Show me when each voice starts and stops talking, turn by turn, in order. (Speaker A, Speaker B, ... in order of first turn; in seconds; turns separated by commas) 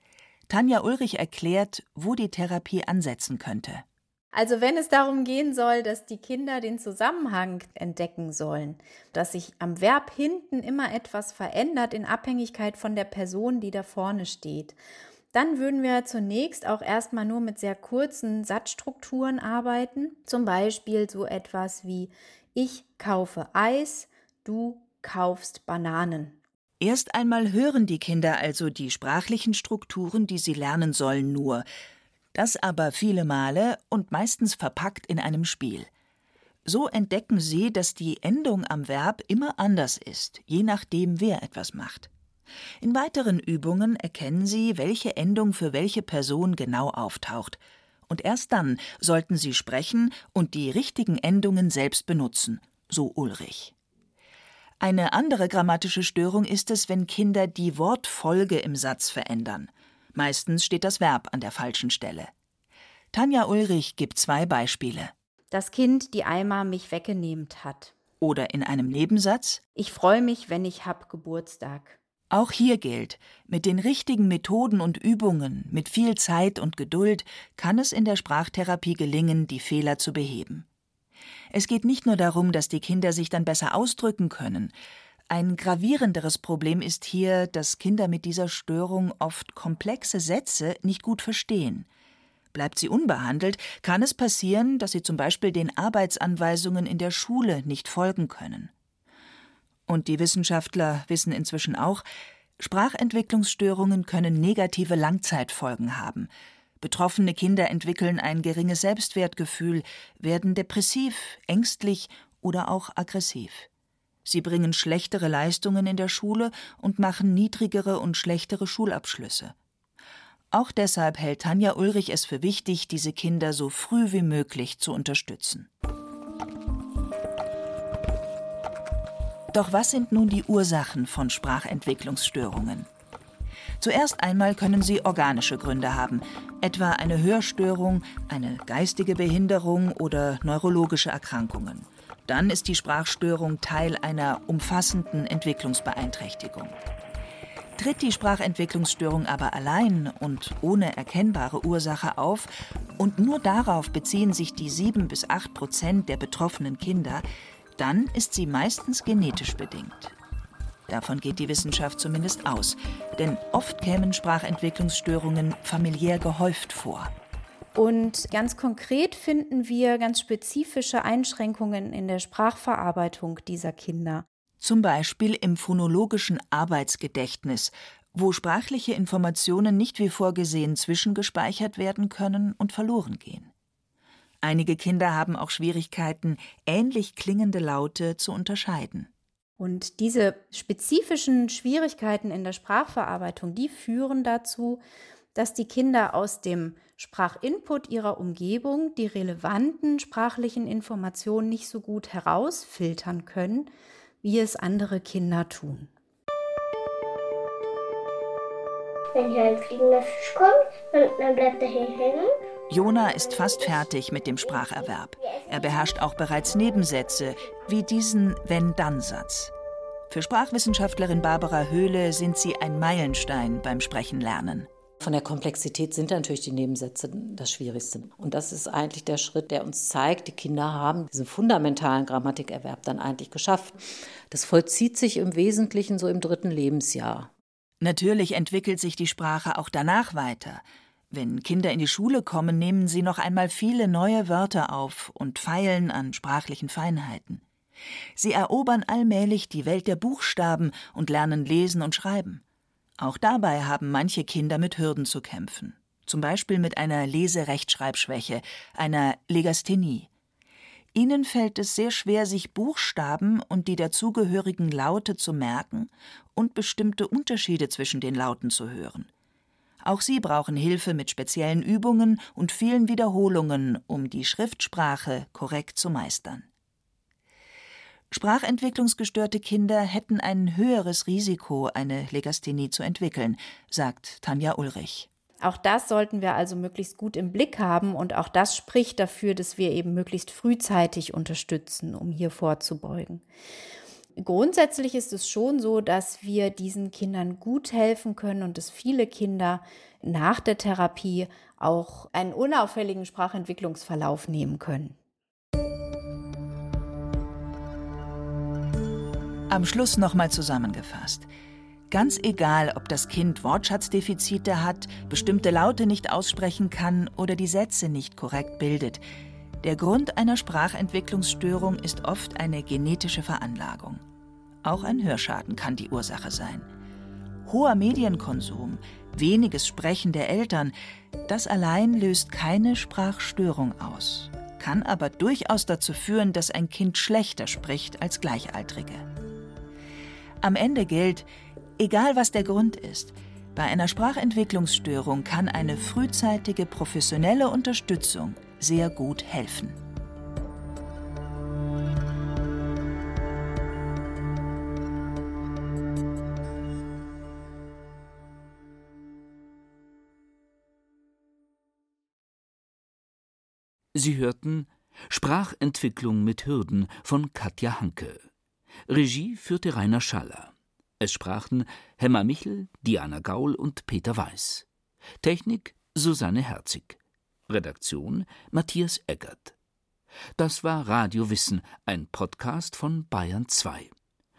Speaker A: 0.5-3.9, Speaker B: 4.3-14.8, Speaker B: 15.3-26.4, Speaker A: 26.8-31.6, Speaker A: 32.3-35.9, Speaker A: 36.6-42.1, Speaker A: 42.8-53.7, Speaker A: 54.8-62.3, Speaker A: 63.1-65.1, Speaker B: 65.5-67.9, Speaker A: 68.2-69.6, Speaker B: 69.8-72.0, Speaker A: 72.3-80.7, Speaker A: 81.5-84.7, Speaker A: 85.3-91.9, Speaker A: 92.5-98.7, Speaker A: 99.9-102.0, Speaker A: 102.6-106.3, Speaker A: 106.8-113.7, Speaker A: 114.3-119.5, Speaker A: 120.5-125.7, Speaker A: 129.5-132.9, Speaker A: 133.8-146.8, Speaker A: 147.8-157.2, Speaker A: 157.8-160.1, Speaker A: 160.9-167.1, Speaker B: 167.8-174.3, Speaker A: 174.6-183.5, Speaker A: 184.4-189.1, Speaker B: 189.6-194.8, Speaker B: 195.3-203.7, Speaker B: 204.2-205.9, Speaker C: 209.1-213.9, Speaker A: 212.7-219.5, Speaker C: 214.4-216.0, Speaker C: 216.7-217.6, Speaker A: 220.1-224.7, Speaker D: 225.0-233.8, Speaker D: 234.3-237.3, Speaker A: 237.8-247.4, Speaker A: 248.2-252.4, Speaker A: 253.0-260.1, Speaker A: 260.9-269.1, Speaker A: 269.8-276.5, Speaker A: 278.1-285.1, Speaker B: 285.4-293.2, Speaker B: 294.2-305.0, Speaker A: 309.5-311.3, Speaker A: 311.9-319.0, Speaker A: 319.6-324.0, Speaker A: 324.6-326.7, Speaker A: 327.4-330.7, Speaker A: 331.3-339.1, Speaker A: 340.4-341.3, Speaker A: 341.8-349.8, Speaker E: 363.9-368.3, Speaker E: 368.9-374.6, Speaker E: 375.2-379.5, Speaker E: 380.4-383.9